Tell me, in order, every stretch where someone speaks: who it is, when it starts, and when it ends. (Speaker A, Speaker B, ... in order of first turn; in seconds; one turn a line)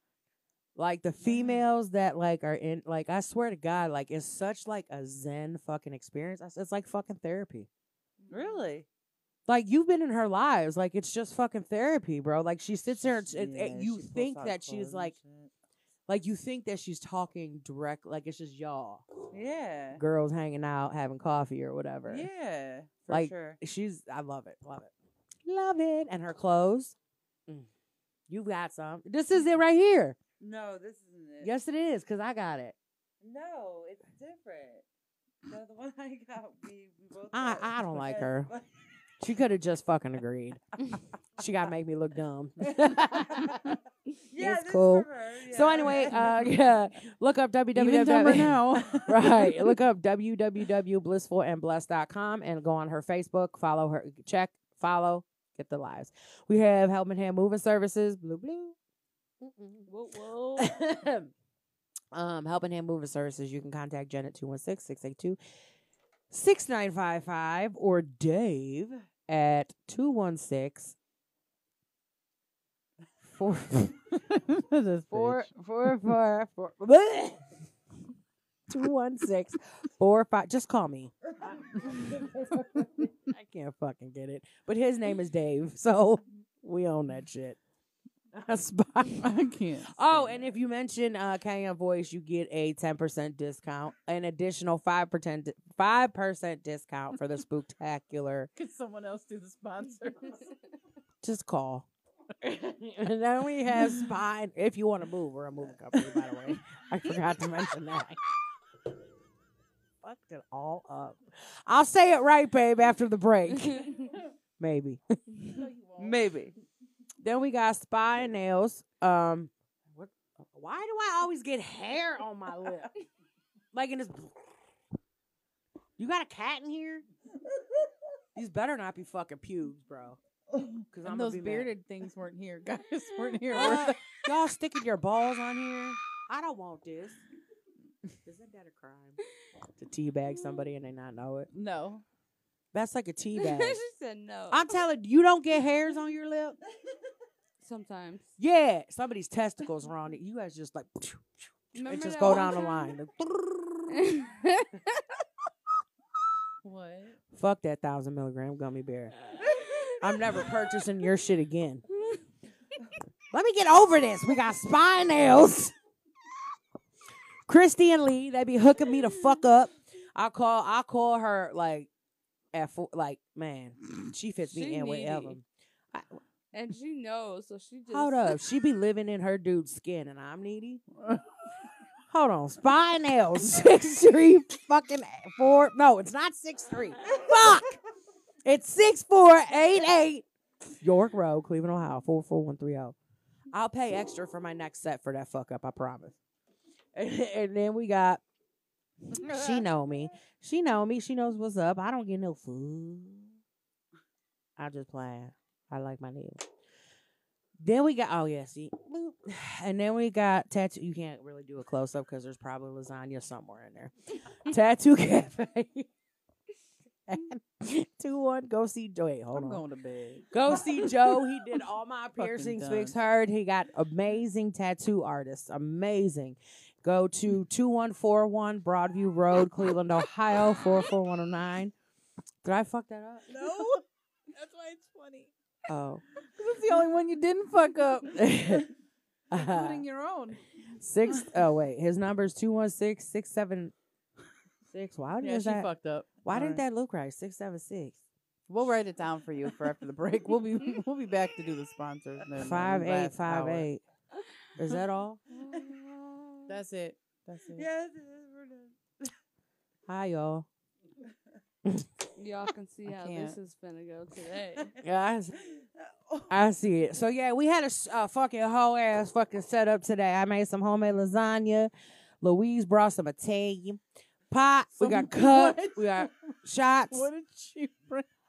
Speaker A: 0.8-7.7
Speaker B: 1.2-1.6
Speaker C: 8.2-8.7
Speaker B: 8.3-8.9
Speaker A: 9.5-15.2
Speaker B: 13.3-15.5
Speaker A: 16.1-19.1
Speaker B: 19.3-20.0
Speaker A: 19.9-22.3
Speaker B: 22.1-23.6
Speaker A: 23.1-24.9
Speaker A: 25.5-26.9
Speaker A: 28.3-30.2
Speaker B: 30.4-31.5
Speaker A: 31.4-32.8
Speaker B: 33.2-34.9
Speaker B: 35.5-38.7
Speaker A: 37.3-38.5
Speaker A: 39.2-40.6
Speaker A: 41.4-43.8
Speaker B: 42.6-43.8
Speaker B: 44.3-46.5
Speaker A: 44.4-58.8
Speaker D: 47.8-49.7
Speaker A: 59.4-59.9
Speaker C: 59.9-60.7
Speaker A: 60.6-61.3
Speaker A: 62.1-65.4
Speaker A: 66.3-71.0
Speaker A: 73.3-74.1
Speaker D: 74.2-75.5
Speaker A: 75.1-77.5
Speaker A: 78.7-87.6
Speaker A: 88.3-89.3
Speaker D: 89.2-90.4
Speaker A: 89.9-98.5
Speaker D: 98.6-100.5
Speaker A: 101.2-101.9
Speaker A: 102.4-108.2
Speaker A: 110.0-115.2
Speaker D: 115.5-116.2
Speaker B: 116.0-116.5
Speaker A: 117.2-122.9
Speaker A: 123.7-124.3
Speaker A: 126.0-127.0
Speaker A: 128.4-130.2
Speaker A: 130.9-131.7
Speaker D: 131.0-134.0
Speaker C: 133.3-133.8
Speaker A: 133.5-137.2
Speaker A: 138.2-139.2
Speaker A: 139.8-141.5
Speaker C: 140.4-140.6
Speaker D: 141.5-142.0
Speaker A: 142.7-143.8
Speaker C: 143.4-144.8
Speaker A: 144.5-146.6
Speaker C: 147.6-148.3
Speaker A: 148.4-154.2
Speaker C: 151.8-152.9
Speaker C: 153.9-155.0
Speaker D: 156.6-157.2
Speaker A: 157.3-161.8
Speaker C: 159.6-160.5
Speaker A: 163.3-165.7
Speaker A: 167.5-171.9
Speaker A: 172.5-176.2
Speaker C: 174.5-175.3
Speaker C: 176.5-178.4
Speaker A: 177.9-180.8
Speaker A: 182.1-187.8
Speaker A: 188.4-190.3
Speaker A: 190.8-193.0
Speaker A: 193.5-196.2
Speaker A: 196.9-198.2
Speaker A: 199.1-203.4
Speaker A: 204.6-206.4
Speaker A: 207.6-215.9
Speaker A: 217.1-219.6
Speaker D: 219.3-220.7
Speaker A: 220.3-231.7
Speaker D: 222.2-222.9
Speaker A: 232.4-233.3
Speaker D: 233.3-235.3
Speaker A: 235.7-236.0
Speaker D: 236.2-238.2
Speaker A: 238.1-238.7
Speaker A: 239.3-239.8
Speaker D: 239.3-240.4
Speaker A: 240.8-243.7
Speaker A: 244.7-245.7
Speaker D: 245.2-246.6
Speaker A: 246.2-248.0
Speaker D: 248.5-253.7
Speaker A: 252.4-253.8
Speaker A: 254.6-255.2
Speaker B: 255.3-256.5
Speaker D: 256.5-257.7
Speaker B: 257.6-259.1
Speaker A: 259.9-260.5
Speaker C: 262.2-264.7
Speaker D: 262.9-263.4
Speaker A: 264.8-265.4
Speaker B: 265.4-266.3
Speaker A: 266.3-277.1
Speaker D: 274.8-276.1
Speaker D: 276.9-278.1